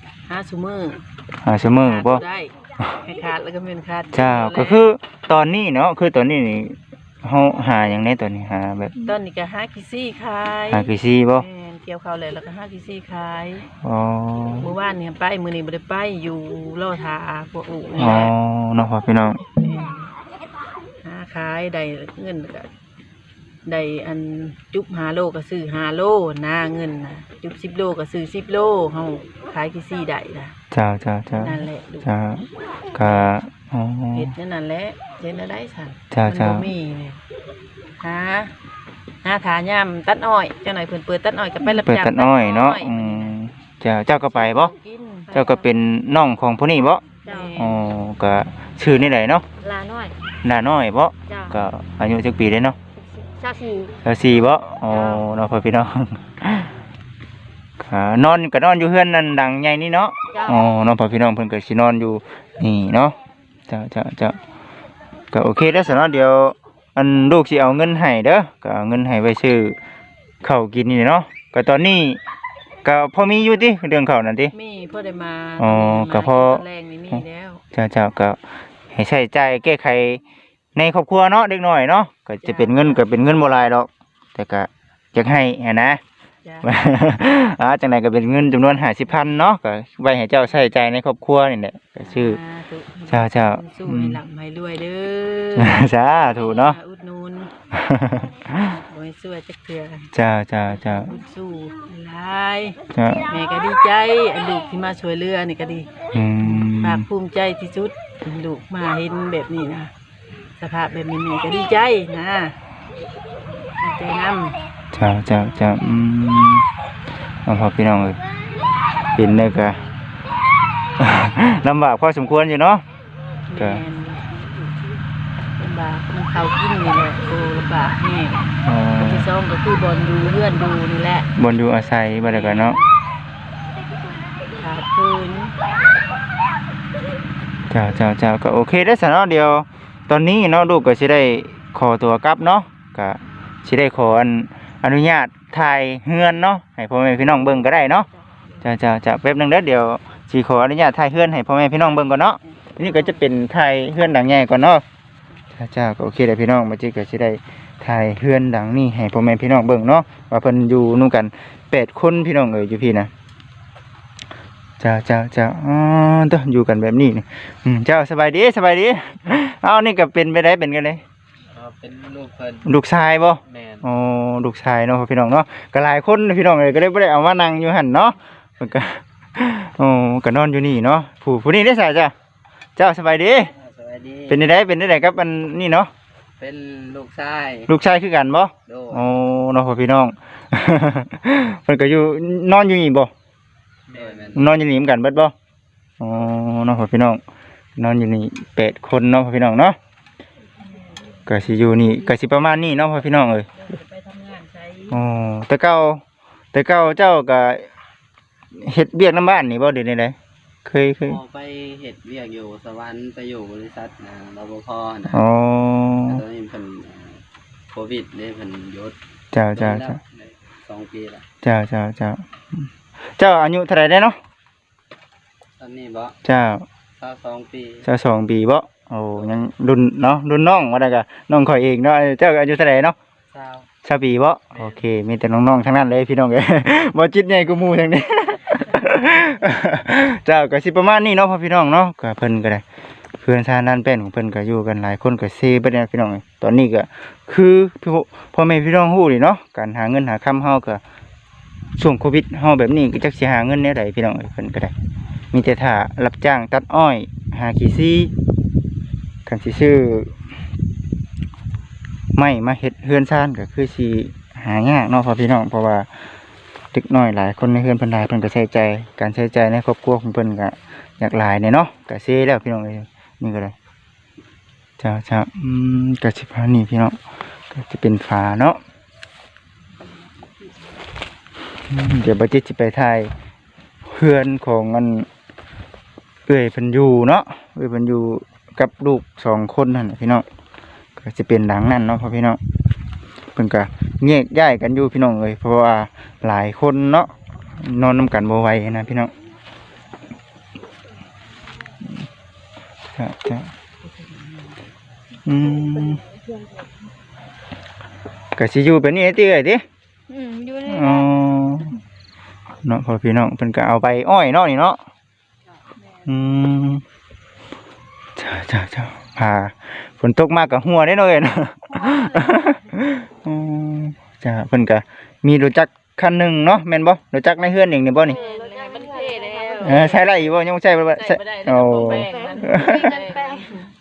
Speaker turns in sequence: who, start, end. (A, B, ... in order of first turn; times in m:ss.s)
0:00.3-0:01.0 A
0:01.4-0:02.2 B
0:01.7-0:04.9 A
0:04.1-0:09.0 B
0:09.0-0:13.7 A
0:10.7-0:11.5 B
0:13.8-0:14.7 B
0:14.6-0:18.3 A
0:18.0-0:19.4 B
0:19.5-0:20.1 A
0:21.0-0:22.7 A
0:23.6-0:30.6 A
0:30.7-0:34.3 B
0:31.3-0:32.1 A
0:32.9-0:33.4 A
0:34.1-0:37.2 A
0:36.1-0:36.7 B
0:38.0-0:38.5 A
0:39.2-0:43.4 A
0:41.8-0:44.7 B
0:44.2-0:45.3 A
0:45.3-0:45.7 C
0:45.3-0:47.0 B
0:47.2-0:47.9 A
0:47.2-0:47.6 C
0:47.6-0:49.5 B
0:49.6-0:50.2 C
0:50.4-0:52.8 B
0:51.3-0:51.6 C
0:53.0-0:54.0 C
0:54.0-0:56.8 B
0:54.9-0:55.3 C
0:57.8-1:03.2 B
1:00.3-1:00.6 C
1:03.7-1:04.4 B
1:05.3-1:09.8 B
1:10.4-1:12.2 B
1:12.8-1:14.5 B
1:14.5-1:17.6 A
1:15.6-1:17.2 B
1:17.7-1:18.4 B
1:18.9-1:20.2 B
1:20.8-1:26.0 B
1:22.4-1:23.1 A
1:26.6-1:32.4 B
1:32.1-1:37.5 A
1:33.1-1:34.2 B
1:35.6-1:36.8 B
1:37.7-1:38.7 B
1:38.6-1:40.1 A
1:40.1-1:41.2 B
1:40.7-1:49.9 A
1:42.9-1:43.3 B
1:46.1-1:47.1 B
1:50.6-1:52.6 A
1:53.8-1:54.6 A
1:54.9-1:56.7 B
1:57.4-1:58.2 B
1:59.2-1:59.8 B
2:01.0-2:02.8 B
2:03.5-2:04.8 A
2:03.6-2:03.8 B
2:05.6-2:11.3 A
2:08.6-2:09.3 B
2:11.4-2:12.8 B
2:12.2-2:12.9 A
2:14.6-2:15.5 A
2:17.7-2:28.1 B
2:28.6-2:34.8 B
2:32.5-2:33.2 A
2:35.5-2:43.1 B
2:44.8-2:51.0 B
2:51.5-2:52.7 D
2:52.6-3:02.1 B
2:53.5-2:53.8 D
3:02.8-3:03.5 B
3:03.6-3:04.4 D
3:04.3-3:05.9 B
3:06.4-3:07.7 D
3:07.7-3:13.1 B
3:08.7-3:09.0 D
3:13.9-3:14.5 D
3:14.3-3:15.3 B
3:16.0-3:17.2 B
3:17.8-3:19.8 B
3:20.6-3:21.8 A
3:21.3-3:23.5 B
3:23.5-3:25.0 A
3:24.9-3:26.0 B
3:26.5-3:27.7 B
3:28.5-3:31.2 B
3:31.0-3:35.2 D
3:35.1-3:36.2 B
3:36.1-3:39.0 D
3:39.3-3:40.0 B
3:39.6-3:41.2 D
3:41.4-3:44.2 B
3:45.6-3:46.2 D
3:46.2-3:46.7 B
3:47.0-3:47.9 D
3:47.8-3:53.0 B
3:53.3-3:53.7 D
3:53.8-4:02.6 B
4:03.2-4:10.8 B
4:11.8-4:14.7 B
4:15.3-4:18.1 B
4:19.3-4:20.2 B
4:22.1-4:25.9 B
4:26.7-4:33.6 B
4:34.8-4:37.0 B
4:37.5-4:38.6 B
4:41.7-4:43.1 B
4:43.9-4:45.1 B
4:46.3-4:50.2 B
4:51.0-4:52.4 B
4:53.3-4:59.1 B
5:03.0-5:03.5 B
5:03.8-5:04.6 A
5:05.3-5:06.0 B
5:08.4-5:09.6 B
5:10.1-5:11.2 C
5:10.6-5:11.7 B
5:12.6-5:14.8 B
5:15.7-5:16.2 A
5:16.1-5:16.8 B
5:18.2-5:28.2 B
5:21.7-5:22.6 A
5:28.0-5:30.4 A
5:28.0-5:30.1 C
5:29.6-5:32.9 B
5:30.9-5:33.7 A
5:31.9-5:33.6 C